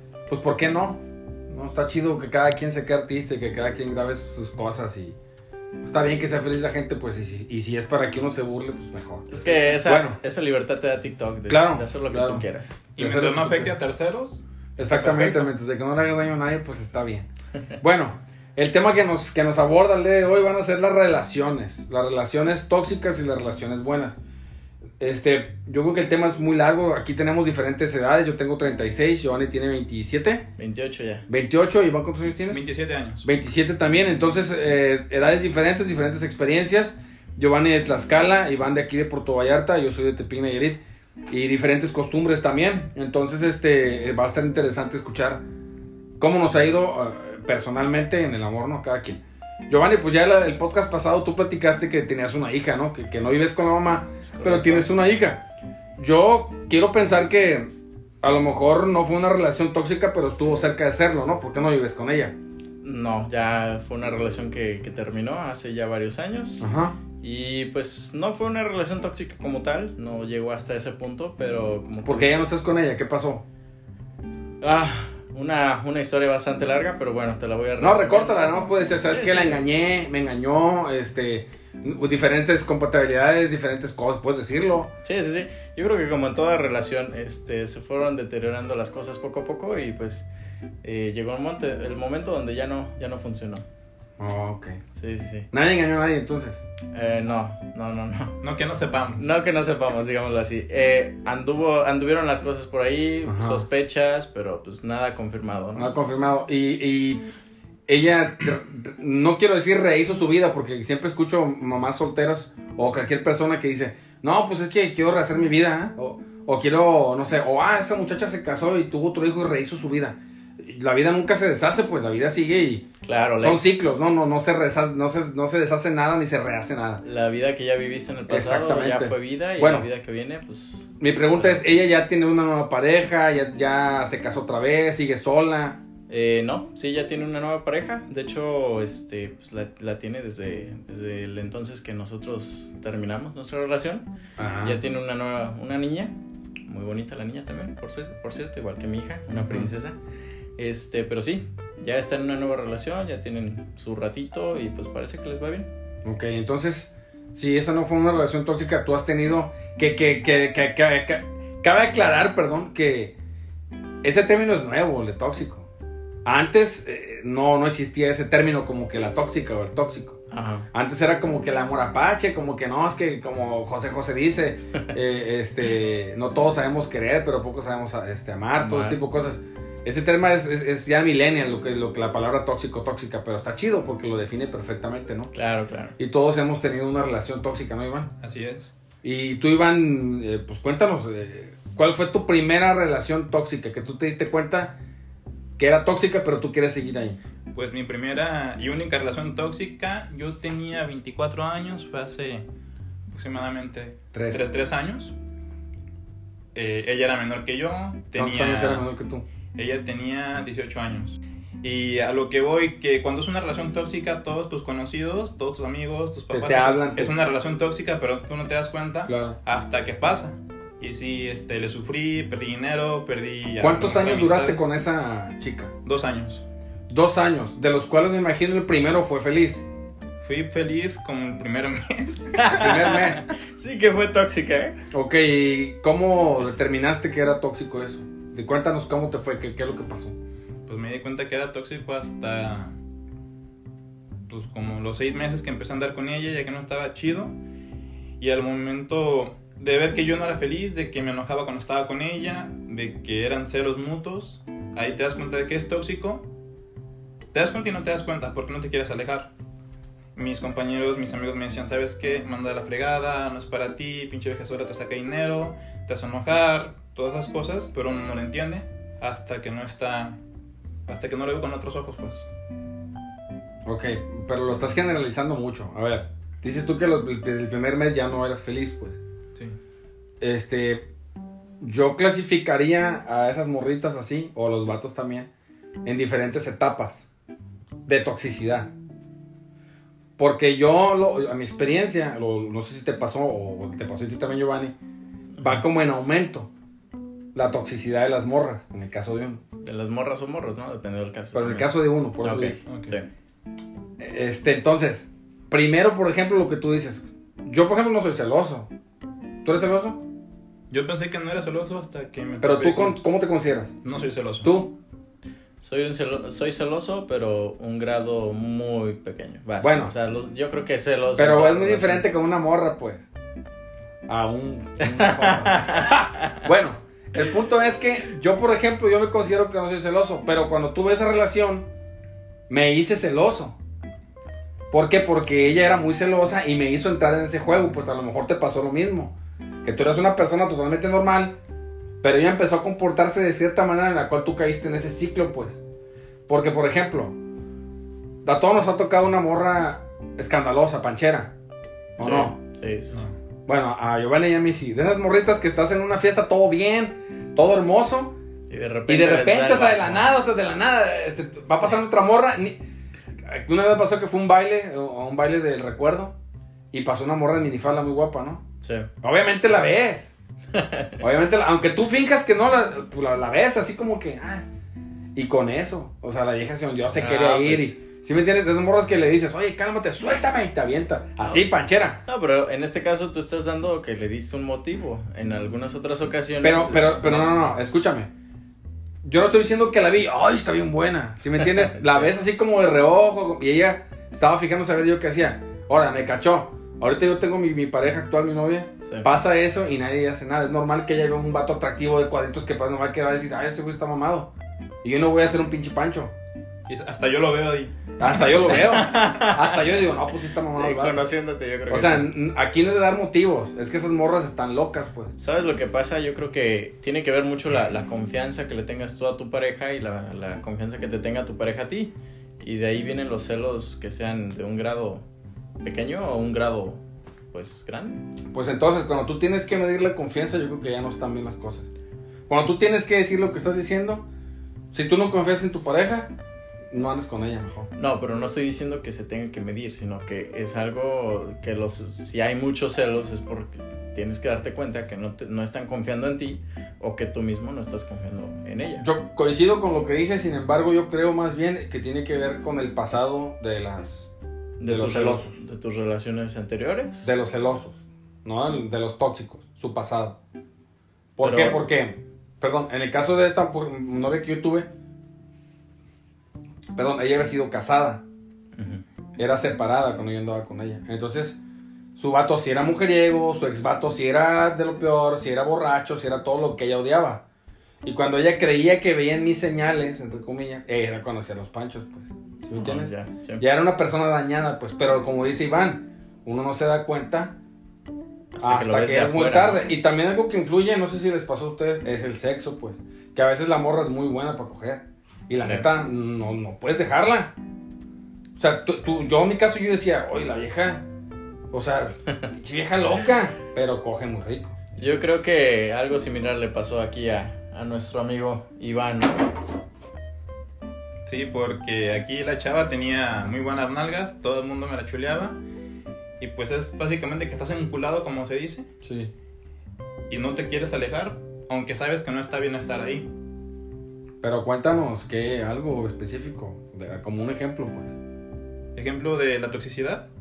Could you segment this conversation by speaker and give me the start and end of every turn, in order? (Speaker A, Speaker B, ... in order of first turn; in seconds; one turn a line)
Speaker A: 0.3-5.2
Speaker A: 5.8-10.2
Speaker B: 9.3-12.8
Speaker A: 11.5-12.4
Speaker C: 12.9-15.4
Speaker A: 13.0-13.7
Speaker A: 14.8-17.3
Speaker B: 14.8-15.2
Speaker A: 17.8-24.2
Speaker A: 25.0-30.5
Speaker B: 30.6-31.3
Speaker A: 31.3-32.6
Speaker C: 32.5-33.3
Speaker A: 33.2-45.4
Speaker A: 46.2-57.7
Speaker B: 54.2-54.9
Speaker A: 58.2-62.4
Speaker B: 62.8-66.7
Speaker A: 66.6-67.0
Speaker B: 67.2-72.6
Speaker A: 72.0-73.4
Speaker B: 74.6-79.6
Speaker A: 77.8-84.9
Speaker B: 85.0-90.3
Speaker B: 90.8-93.6
Speaker A: 94.2-94.8
Speaker B: 94.9-95.5
Speaker A: 95.5-96.6
Speaker B: 96.9-98.3
Speaker C: 98.4-99.3
Speaker B: 99.2-105.9
Speaker A: 103.2-103.6
Speaker A: 105.7-107.2
Speaker A: 107.9-122.9
Speaker B: 123.0-123.6
Speaker A: 123.4-127.0
Speaker B: 127.0-131.6
Speaker A: 128.3-129.9
Speaker A: 131.0-135.8
Speaker B: 136.1-144.1
Speaker A: 144.4-144.8
Speaker B: 144.6-146.2
Speaker B: 146.7-149.9
Speaker A: 149.4-149.7
Speaker B: 150.6-155.7
Speaker A: 156.0-163.1
Speaker A: 164.0-165.7
Speaker A: 166.2-170.2
Speaker B: 170.3-170.7
Speaker A: 170.7-185.3
Speaker B: 178.6-179.0
Speaker B: 185.3-185.9
Speaker A: 186.0-188.1
Speaker C: 188.2-188.7
Speaker A: 189.0-194.8
Speaker A: 195.6-197.2
Speaker C: 197.5-202.4
Speaker C: 203.1-205.1
Speaker A: 204.1-204.4
Speaker C: 206.5-208.9
Speaker A: 208.1-209.2
Speaker C: 209.5-224.7
Speaker A: 216.3-217.1
Speaker A: 219.1-219.4
Speaker A: 223.6-225.7
Speaker C: 225.8-226.4
Speaker A: 226.9-229.6
Speaker C: 230.2-233.0
Speaker B: 232.3-234.8
Speaker A: 232.5-233.2
Speaker A: 234.9-240.2
Speaker C: 240.7-242.7
Speaker C: 244.3-247.3
Speaker C: 248.2-256.2
Speaker C: 257.3-259.3
Speaker C: 260.1-270.2
Speaker C: 270.9-272.3
Speaker A: 273.6-279.0
Speaker A: 280.2-280.9
Speaker A: 281.6-285.3
Speaker A: 285.8-287.0
Speaker A: 287.9-288.7
Speaker A: 290.2-294.7
Speaker B: 295.3-295.6
Speaker A: 295.4-296.5
Speaker A: 297.3-299.4
Speaker B: 299.6-303.1
Speaker A: 301.3-302.6
Speaker C: 302.6-302.9
Speaker A: 304.0-308.7
Speaker A: 309.4-310.0
Speaker C: 310.7-313.0
Speaker A: 312.4-313.7
Speaker C: 313.8-314.6
Speaker A: 314.4-314.8
Speaker B: 315.6-322.1
Speaker A: 319.6-319.9
Speaker A: 321.2-323.1
Speaker A: 324.1-331.7
Speaker B: 324.8-326.3
Speaker A: 332.5-333.6
Speaker A: 334.7-341.4
Speaker A: 342.0-345.6
Speaker A: 346.3-347.1
Speaker A: 348.2-351.3
Speaker A: 352.0-352.4
Speaker B: 352.0-353.0
Speaker A: 353.4-358.1
Speaker B: 358.5-360.1
Speaker A: 358.9-362.6
Speaker A: 363.2-366.1
Speaker A: 366.7-368.4
Speaker B: 368.6-368.9
Speaker A: 369.0-370.1
Speaker B: 370.5-371.0
Speaker A: 371.0-374.4
Speaker A: 375.1-382.0
Speaker B: 376.9-377.7
Speaker B: 382.1-387.4
Speaker A: 386.4-388.1
Speaker A: 389.0-404.3
Speaker B: 391.4-392.1
Speaker B: 398.8-399.1
Speaker A: 404.8-406.1
Speaker C: 406.7-408.4
Speaker A: 408.0-411.0
Speaker B: 408.4-409.6
Speaker B: 410.5-412.1
Speaker A: 411.7-415.1
Speaker B: 415.2-425.0
Speaker B: 425.6-426.8
Speaker B: 427.3-428.1
Speaker A: 428.3-431.7
Speaker A: 432.3-434.0
Speaker A: 434.7-436.1
Speaker A: 436.7-437.7
Speaker B: 437.7-448.9
Speaker A: 448.8-454.1
Speaker B: 454.6-457.2
Speaker A: 454.6-455.3
Speaker A: 457.0-460.2
Speaker A: 461.2-464.7
Speaker B: 461.2-461.6
Speaker A: 466.7-468.0
Speaker B: 468.6-468.8
Speaker A: 469.2-471.4
Speaker A: 471.9-477.2
Speaker A: 477.8-487.4
Speaker B: 482.5-483.4
Speaker B: 488.3-489.7
Speaker A: 488.4-497.3
Speaker B: 495.4-495.6
Speaker A: 498.4-500.9
Speaker A: 501.5-505.0
Speaker B: 504.8-509.4
Speaker C: 511.0-515.4
Speaker C: 516.2-518.7
Speaker A: 518.8-519.1
Speaker C: 520.1-523.1
Speaker A: 524.2-528.0
Speaker C: 528.7-530.0